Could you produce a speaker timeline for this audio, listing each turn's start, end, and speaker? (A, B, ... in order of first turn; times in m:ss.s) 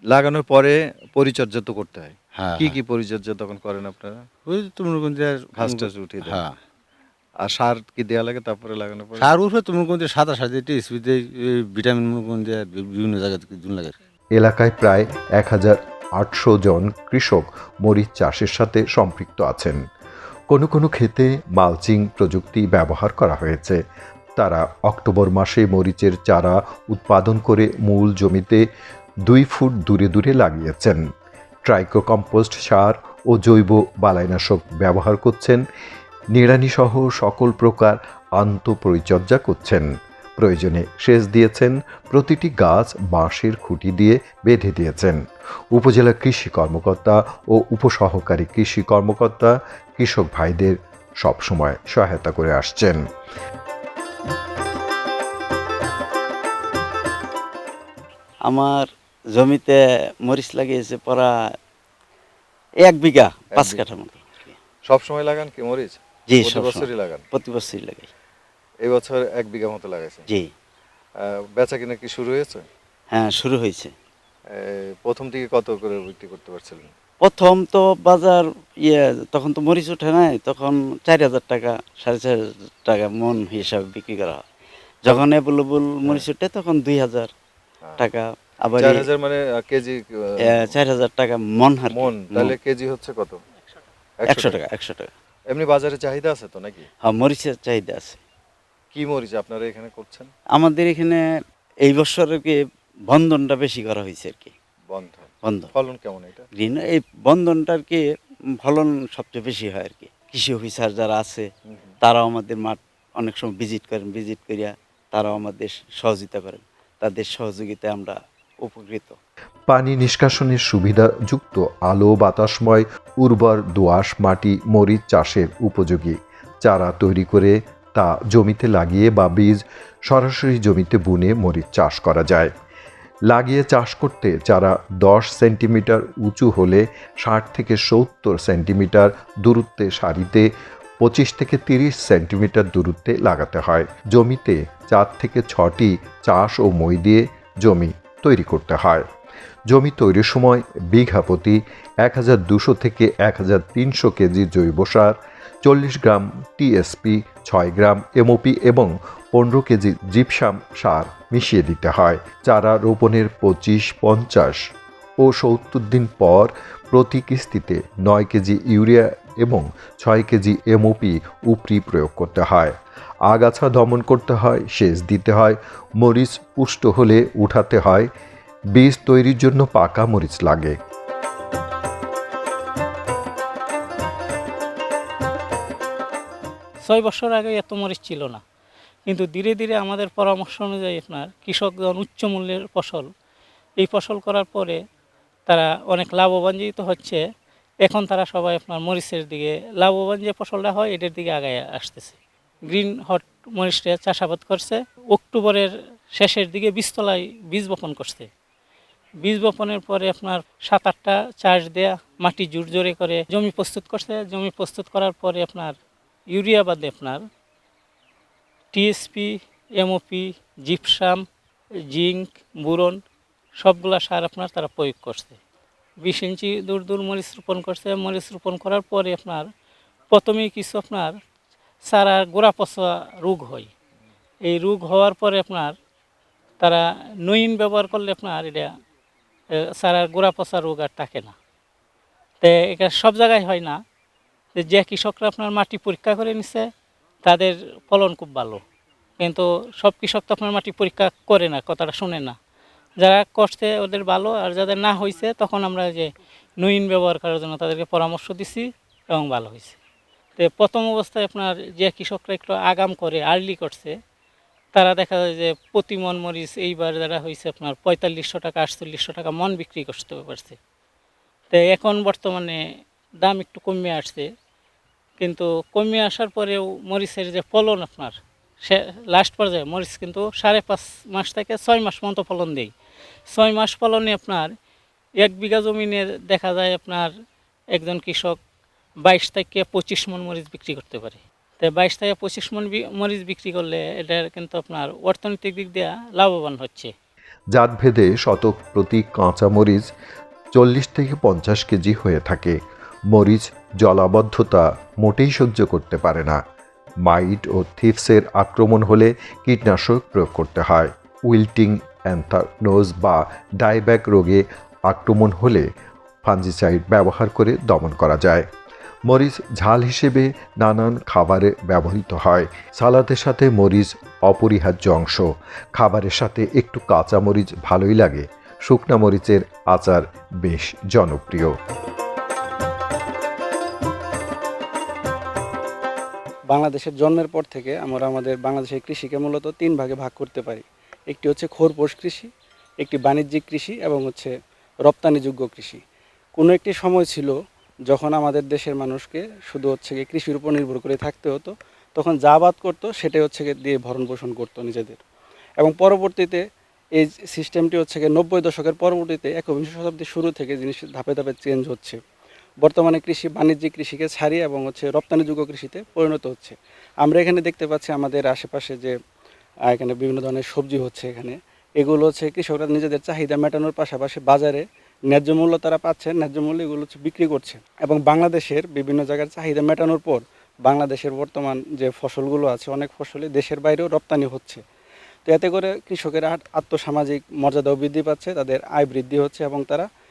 0:00.1-0:04.2 A
0:02.4-0:02.8 B
0:04.5-0:06.5 B
0:05.6-0:06.4 A
0:07.4-0:09.3 A
0:09.2-0:14.0 B
0:14.4-0:19.8 A
0:20.5-0:23.8 A
0:24.4-0:28.6 A
0:29.3-0:31.0 A
0:31.7-0:35.6 A
0:36.3-0:39.9 A
0:40.4-0:45.2 A
0:45.7-0:53.0 A
0:58.5-1:01.3 C
1:02.8-1:04.6 C
1:03.6-1:03.8 A
1:04.9-1:07.2 A
1:06.3-1:08.1 C
1:08.8-1:10.3 A
1:11.6-1:12.7 A
1:13.1-1:13.9 C
1:14.5-1:16.9 A
1:17.2-1:24.4 C
1:25.0-1:27.3 C
1:28.0-1:29.1 C
1:28.8-1:30.8 A
1:30.4-1:32.6 C
1:31.9-1:33.4 A
1:34.2-1:34.6 A
1:34.3-1:35.1 C
1:35.5-1:36.9 A
1:37.0-1:38.2 C
1:38.9-1:40.3 A
1:40.6-1:41.2 C
1:41.8-1:42.6 C
1:43.1-1:44.5 C
1:44.9-1:46.4 A
1:45.4-1:45.7 C
1:46.6-1:48.0 C
1:48.6-1:51.5 C
1:52.0-1:59.2 C
1:59.7-2:12.5 A
2:13.3-2:20.5 A
2:21.0-2:29.1 A
2:29.7-2:44.6 A
2:45.2-2:52.8 A
2:53.3-2:58.1 A
2:58.8-3:00.7 A
3:06.9-3:08.4 D
3:09.1-3:13.1 D
3:13.8-3:14.8 D
3:15.5-3:17.2 D
3:17.8-3:22.2 D
3:22.7-3:28.3 D
3:29.2-3:35.7 D
3:36.3-3:37.2 D
3:38.7-3:41.2 D
3:41.9-3:43.0 D
3:43.6-3:45.4 D
3:46.0-3:49.4 D
3:50.1-3:51.1 D
3:51.9-3:53.7 D
3:54.4-3:55.7 D
3:56.6-3:58.7 D
3:59.8-4:01.3 D
4:02.4-4:03.8 D
4:04.6-4:06.7 D
4:07.2-4:08.6 D
4:09.2-4:12.4 D
4:13.0-4:16.1 D
4:16.6-4:19.8 D
4:20.4-4:23.9 D
4:24.8-4:30.6 D
4:31.5-4:32.6 D
4:33.2-4:34.3 D
4:35.2-4:42.7 D
4:43.3-4:44.5 D
4:45.2-4:47.1 D
4:47.8-4:48.4 D
4:49.0-4:56.9 D
4:57.6-4:59.9 A
5:00.6-5:02.6 A
5:03.1-5:06.4 A
5:07.0-5:15.7 A
5:16.2-5:18.5 A
5:19.1-5:31.5 A
5:36.5-5:42.3 E
5:42.8-5:44.3 E
5:44.8-5:45.8 E
5:46.4-5:47.4 E
5:47.9-5:55.0 E
5:55.6-5:56.4 E
5:57.0-6:02.0 E
6:02.6-6:08.9 E
6:09.7-6:24.6 E
6:25.3-6:29.9 E